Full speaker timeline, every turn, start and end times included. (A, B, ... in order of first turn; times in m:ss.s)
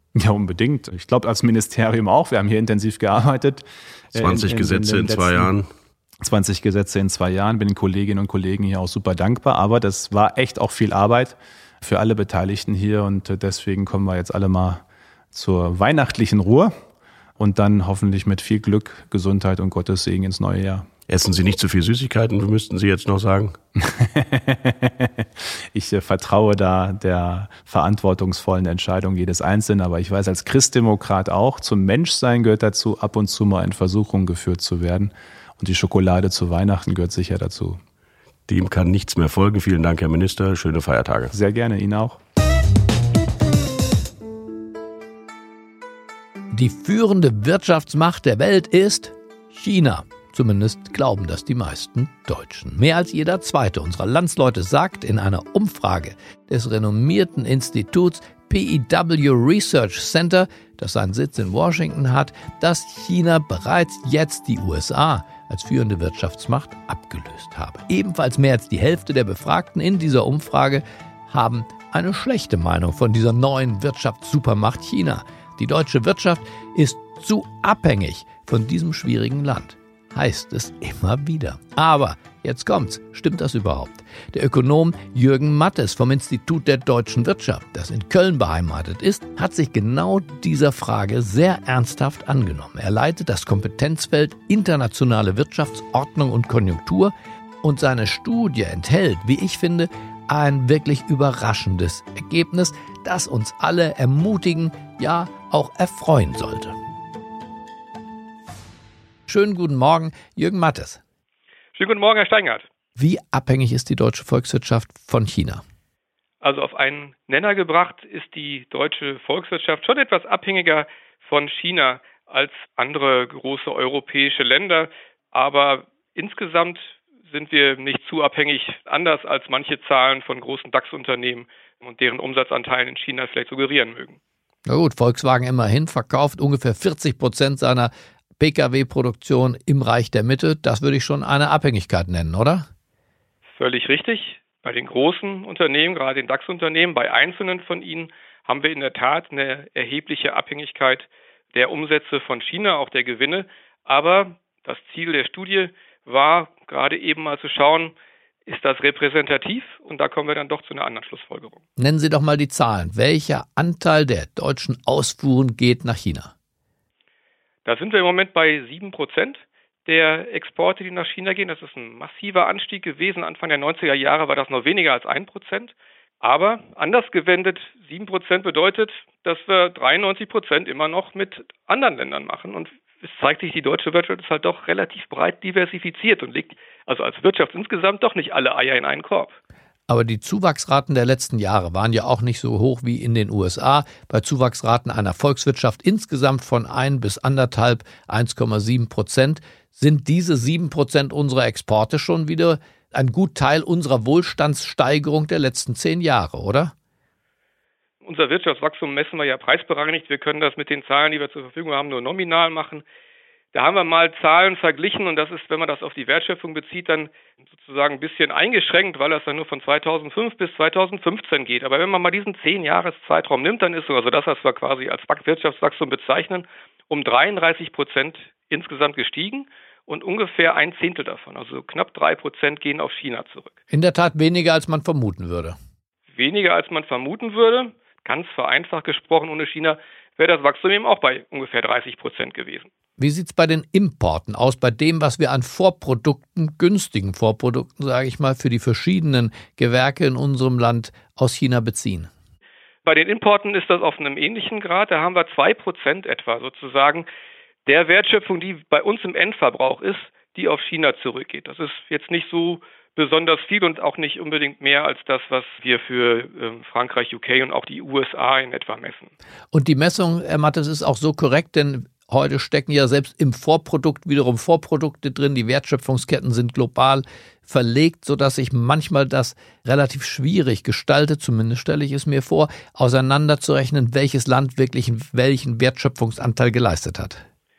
0:00.1-0:05.5 A
0:04.2-0:05.7 B
0:06.2-0:16.7 A
0:17.4-0:20.9 A
0:21.1-0:23.5 B
0:23.8-0:37.8 A
0:38.5-0:41.3 B
0:41.3-0:42.2 A
0:46.5-1:46.8 C
1:49.3-1:51.0 C
1:51.7-1:52.6 D
1:53.0-1:55.6 C
1:56.4-2:14.2 D
2:14.6-2:22.7 C
2:23.6-2:37.9 D
2:38.5-2:41.6 D
2:41.8-2:46.3 C
2:47.6-3:09.4 D
3:09.9-3:26.7 C
3:28.0-3:32.8 D
3:33.5-3:53.5 D
3:53.7-3:55.6 C
3:56.1-4:02.7 D
4:03.0-4:12.1 C
4:12.8-4:17.1 D
4:17.6-4:29.1 D
4:29.5-4:47.2 C